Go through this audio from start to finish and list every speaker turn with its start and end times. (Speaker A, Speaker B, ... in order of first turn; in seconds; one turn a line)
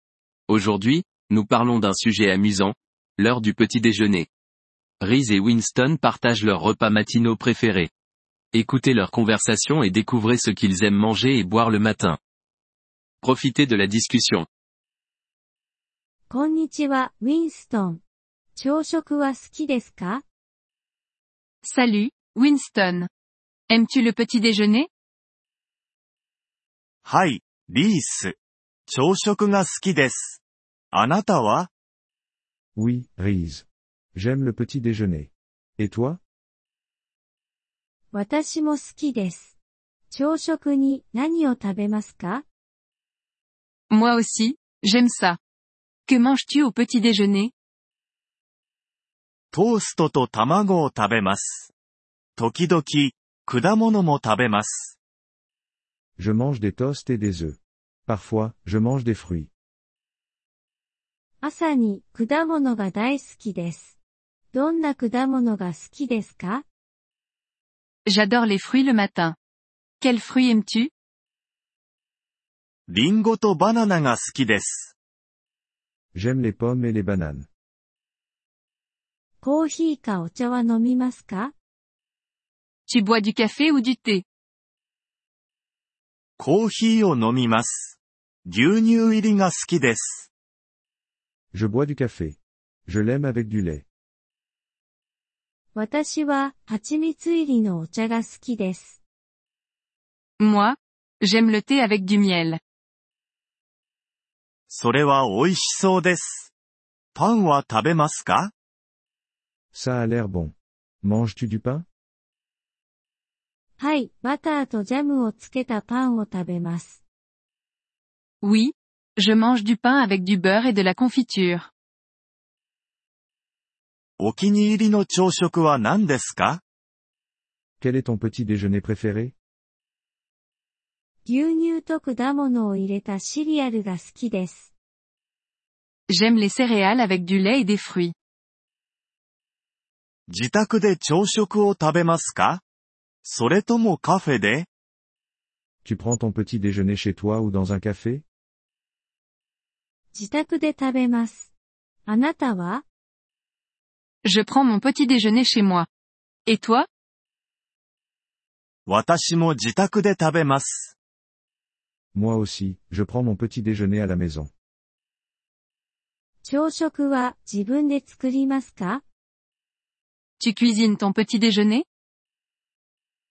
Speaker A: 0.5-4.3
Speaker A: 5.0-7.9
Speaker A: 8.5-12.2
Speaker A: 13.2-14.5
Speaker B: 16.3-18.0
Speaker B: 18.6-20.2
Speaker C: 21.6-23.1
Speaker C: 23.7-24.9
Speaker D: 27.0-28.4
Speaker D: 28.9-30.4
Speaker D: 30.9-31.7
Speaker E: 32.8-36.2
Speaker B: 38.1-39.6
Speaker B: 40.1-42.5
Speaker C: 43.9-45.4
Speaker C: 46.1-47.5
Speaker D: 49.5-51.7
Speaker D: 52.4-55.0
Speaker E: 56.2-59.5
Speaker B: 61.4-64.0
Speaker B: 64.5-66.7
Speaker C: 68.1-69.4
Speaker C: 70.0-70.9
Speaker D: 72.9-74.9
Speaker E: 76.2-77.5
Speaker B: 79.4-81.5
Speaker C: 82.9-84.2
Speaker D: 86.4-90.3
Speaker E: 91.5-93.8
Speaker B: 95.8-99.0
Speaker C: 100.4-102.6
Speaker D: 104.7-106.5
Speaker D: 107.1-108.5
Speaker E: 109.7-111.9
Speaker B: 113.8-117.0
Speaker C: 118.4-121.7
Speaker D: 124.2-126.6
Speaker E: 127.8-129.3
Speaker B: 131.2-134.7
Speaker C: 136.1-138.1
Speaker D: 140.3-142.6
Speaker D: 143.2-144.7
Speaker E: 145.8-148.2
Speaker B: 150.1-151.5
Speaker B: 152.1-152.8
Speaker C: 154.2-155.9
Speaker C: 156.5-156.9
Speaker D: 158.9-161.0
Speaker E: 162.2-164.5
Speaker B: 166.4-169.0
Speaker C: 170.4-171.8